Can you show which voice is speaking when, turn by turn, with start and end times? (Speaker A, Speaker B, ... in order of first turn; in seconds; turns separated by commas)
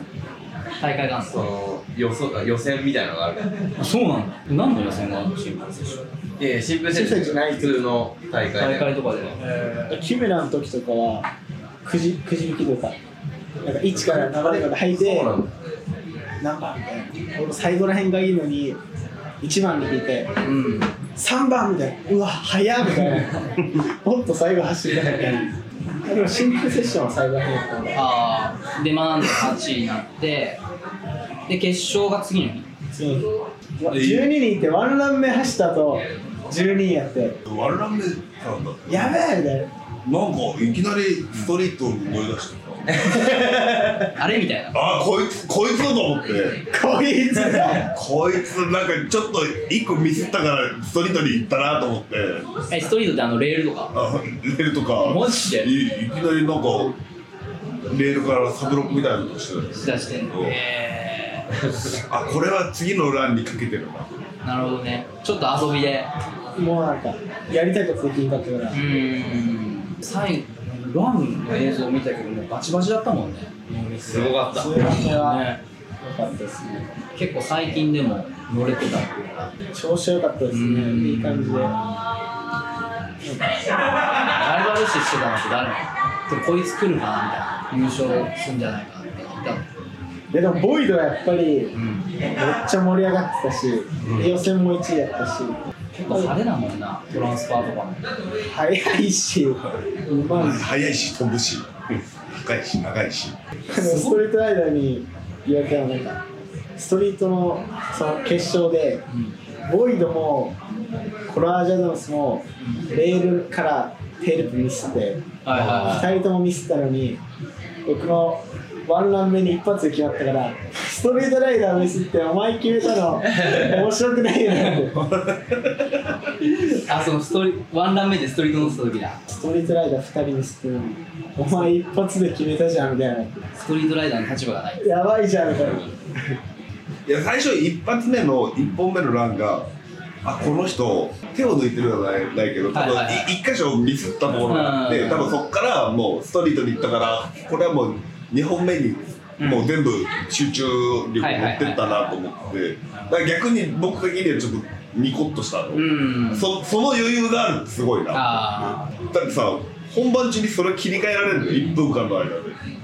Speaker A: 0.8-1.5, Speaker B: 1.3-3.5, Speaker A: 3.8-6.0, Speaker B: 6.4-8.9, Speaker C: 6.9-7.8, Speaker A: 8.6-9.9, Speaker C: 9.9-11.3, Speaker C: 11.8-13.0, Speaker C: 13.6-15.3, Speaker B: 13.9-15.5, Speaker C: 16.4-18.8, Speaker C: 19.4-20.3, Speaker A: 20.4-20.9, Speaker C: 21.1-28.1, Speaker A: 27.9-30.6, Speaker A: 31.5-32.7, Speaker C: 32.9-37.4, Speaker D: 33.9-34.2, Speaker D: 37.5-39.2, Speaker C: 38.9-39.7, Speaker D: 40.0-43.3, Speaker B: 42.9-44.0, Speaker A: 44.1-44.8, Speaker D: 44.7-46.6, Speaker C: 46.7-47.9, Speaker D: 47.8-52.5, Speaker A: 52.7-53.9, Speaker D: 53.9-57.0, Speaker A: 55.0-55.7, Speaker D: 57.9-60.6, Speaker A: 59.7-61.5, Speaker D: 61.9-64.2, Speaker A: 64.4-66.1, Speaker C: 66.5-68.8, Speaker A: 68.7-75.6, Speaker B: 74.0-74.7, Speaker C: 74.5-75.5, Speaker C: 76.0-76.9, Speaker A: 77.1-79.5, Speaker C: 79.7-81.7, Speaker A: 80.5-82.0, Speaker C: 83.2-83.6, Speaker A: 84.3-89.7, Speaker C: 90.3-96.3, Speaker A: 91.7-92.1, Speaker D: 94.0-94.3, Speaker A: 95.9-98.0, Speaker C: 98.5-100.8, Speaker D: 100.3-103.4, Speaker C: 103.7-106.2, Speaker A: 103.7-104.2, Speaker C: 106.8-109.0, Speaker A: 109.1-109.4, Speaker C: 109.6-110.6, Speaker C: 111.3-117.2, Speaker A: 112.6-112.9, Speaker A: 115.4-116.1, Speaker C: 117.8-125.0, Speaker D: 124.9-126.2, Speaker A: 126.7-129.2, Speaker C: 129.3-133.5, Speaker A: 133.6-134.9, Speaker C: 134.8-136.4, Speaker D: 137.1-139.7, Speaker D: 140.2-162.6, Speaker A: 142.7-143.3, Speaker A: 144.5-145.4, Speaker A: 149.4-149.7, Speaker A: 151.2-151.9, Speaker A: 152.9-153.2, Speaker A: 155.7-156.5, Speaker A: 158.1-159.0